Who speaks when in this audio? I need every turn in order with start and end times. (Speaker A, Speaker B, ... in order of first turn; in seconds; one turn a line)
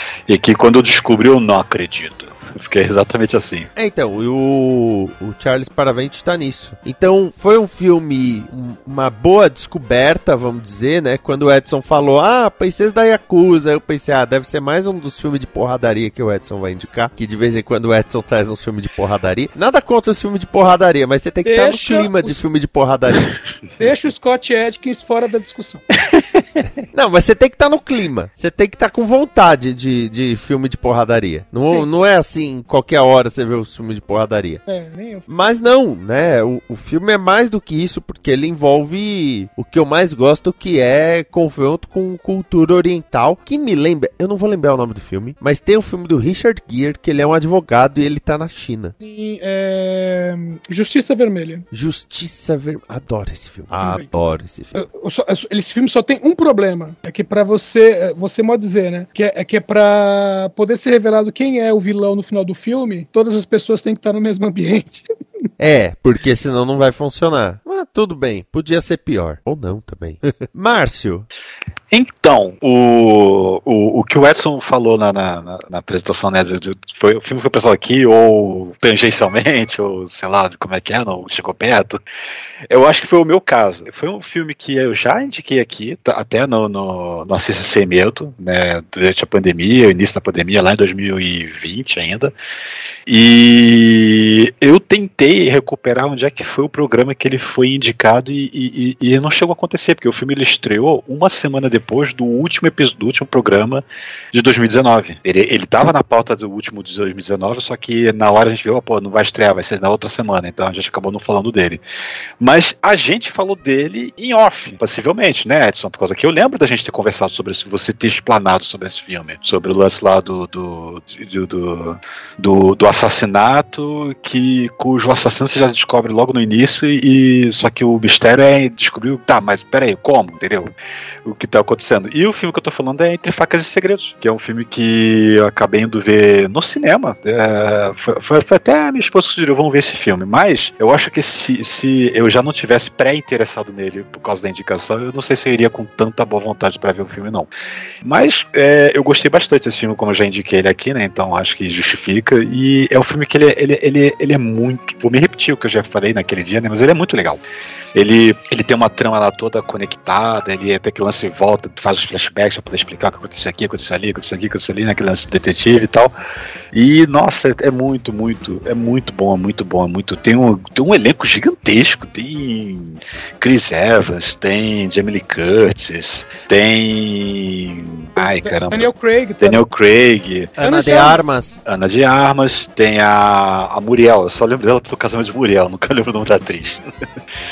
Speaker A: 0.3-3.7
Speaker B: 3.8-23.3
Speaker C: 21.4-22.4
Speaker C: 23.8-25.8
Speaker A: 26.2-26.6
Speaker B: 26.9-34.6
Speaker C: 34.7-35.3
Speaker B: 35.3-49.0
Speaker C: 49.0-51.6
Speaker B: 51.7-54.7
Speaker C: 53.8-54.1
Speaker C: 54.7-65.1
Speaker B: 65.6-71.3
Speaker A: 71.9-82.0
Speaker A: 82.7-92.3
Speaker A: 93.1-111.8
Speaker A: 112.4-130.7
Speaker A: 131.2-147.5
Speaker A: 148.0-157.4
Speaker A: 157.9-166.1
Speaker A: 166.7-180.6
Speaker C: 178.2-179.6
Speaker B: 180.6-181.6
Speaker C: 180.6-181.4
Speaker A: 181.7-186.8